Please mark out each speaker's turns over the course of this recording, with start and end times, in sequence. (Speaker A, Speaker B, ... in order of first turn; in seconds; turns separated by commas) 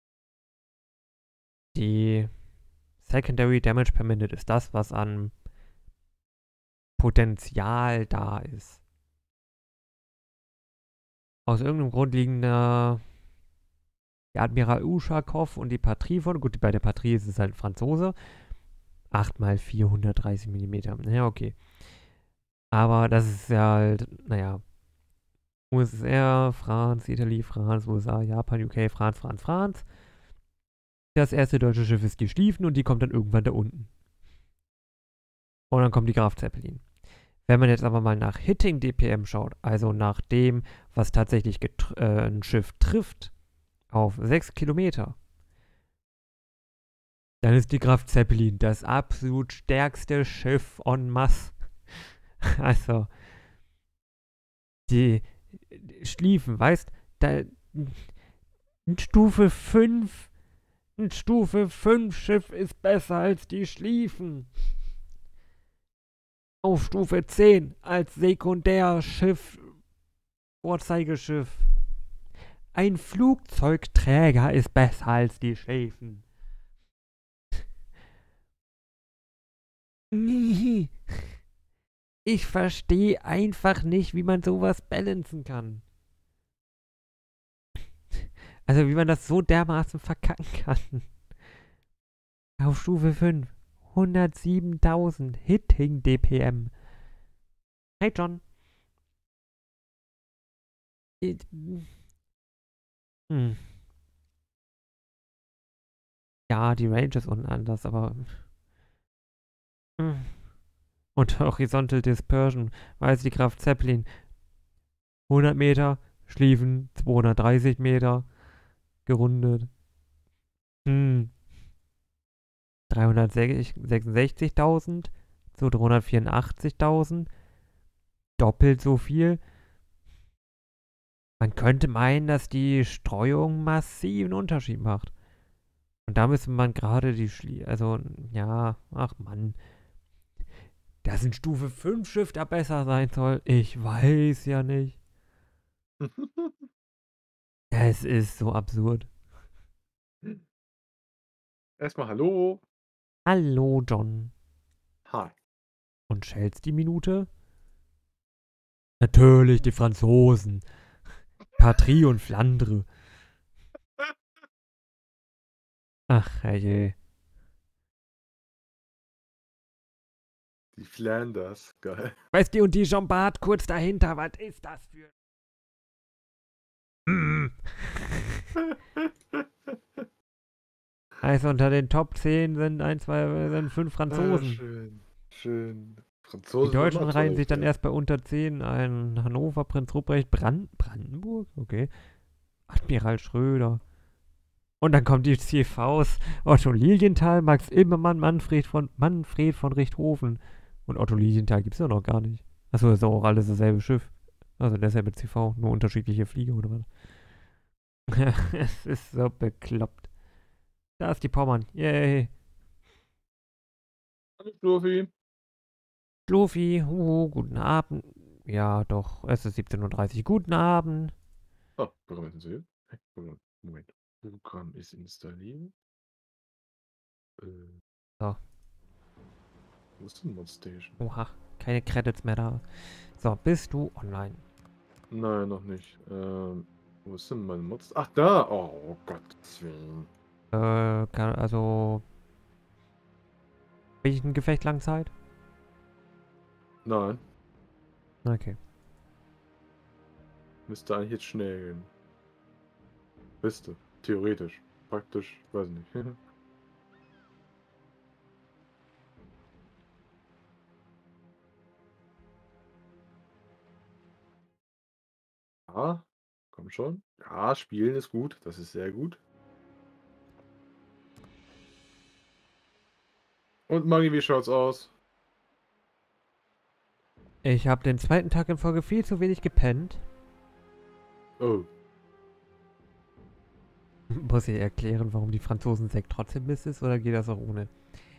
Speaker A: 1.7-2.3, Speaker A: 3.0-5.3, Speaker A: 7.0-8.8, Speaker A: 11.4-13.0, Speaker A: 14.3-18.1, Speaker A: 19.1-21.6, Speaker A: 22.7-24.6, Speaker A: 25.7-29.8, Speaker A: 31.1-33.9, Speaker A: 35.7-36.8, Speaker A: 37.5-43.3, Speaker A: 43.9-45.2, Speaker A: 47.4-53.1, Speaker A: 54.9-58.1, Speaker A: 58.9-60.3, Speaker A: 61.0-64.5, Speaker A: 66.6-69.7, Speaker A: 70.6-71.7, Speaker A: 72.7-76.2, Speaker A: 80.1-81.3, Speaker A: 82.2-85.8, Speaker A: 88.1-91.1, Speaker A: 92.6-96.7, Speaker A: 98.0-98.4, Speaker A: 101.2-101.9, Speaker A: 103.3-103.6, Speaker A: 106.5-108.3, Speaker A: 110.0-110.3, Speaker A: 111.1-114.1, Speaker A: 115.3-118.3, Speaker A: 119.0-119.7, Speaker A: 120.8-121.3, Speaker A: 122.9-127.3, Speaker A: 128.4-129.4, Speaker A: 131.4-135.1, Speaker A: 136.1-139.6, Speaker A: 141.0-145.0, Speaker B: 146.0-146.7, Speaker A: 147.7-149.1, Speaker B: 151.8-152.6, Speaker A: 153.2-154.3, Speaker B: 155.1-155.3, Speaker A: 156.1-157.3, Speaker A: 159.0-160.6, Speaker A: 161.6-162.9, Speaker A: 166.1-166.9, Speaker B: 170.8-172.2, Speaker A: 172.3-175.1, Speaker A: 177.1-178.4, Speaker B: 178.9-179.7, Speaker A: 181.2-184.6, Speaker B: 184.1-187.7, Speaker A: 186.6-191.9, Speaker A: 192.7-193.8, Speaker A: 194.8-206.9, Speaker A: 208.1-210.1, Speaker A: 211.0-212.3, Speaker B: 214.4-215.1, Speaker A: 216.3-221.1, Speaker B: 221.8-225.7, Speaker B: 227.4-227.8, Speaker B: 230.0-231.0, Speaker A: 231.0-234.4, Speaker B: 235.1-240.1, Speaker A: 240.5-242.0, Speaker A: 244.0-245.1, Speaker B: 246.8-247.2, Speaker A: 248.2-248.6, Speaker B: 250.7-251.9, Speaker B: 253.4-256.2, Speaker B: 265.7-269.2, Speaker B: 273.7-274.9, Speaker A: 277.4-280.0, Speaker B: 281.4-281.7, Speaker A: 284.1-287.7